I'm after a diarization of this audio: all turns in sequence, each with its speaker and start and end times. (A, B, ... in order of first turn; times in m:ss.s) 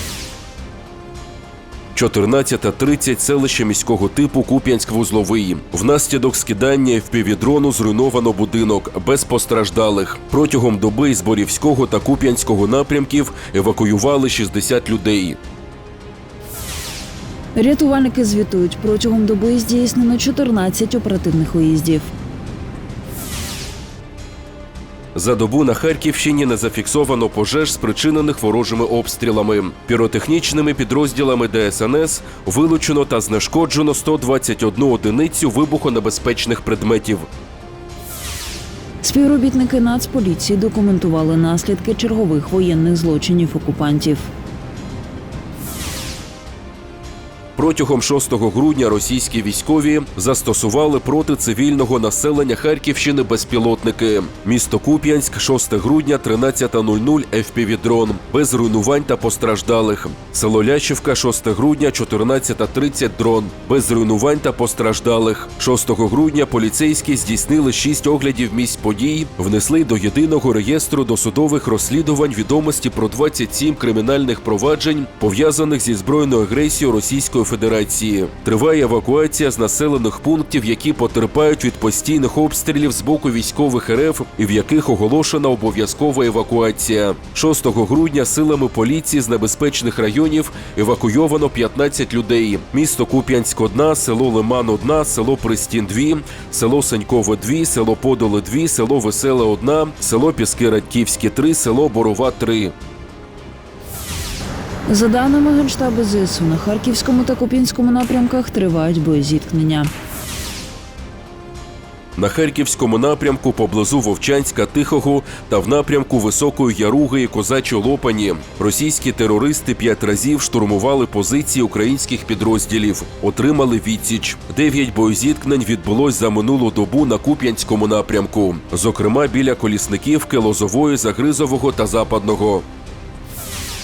0:01.9-0:15.4 A
0:17.5-0:22.1 B
0:25.1-0:37.3 A
0:39.0-0:44.3 B
0:47.6-1:42.7 A
1:44.9-1:49.9 B
1:52.2-2:12.6 A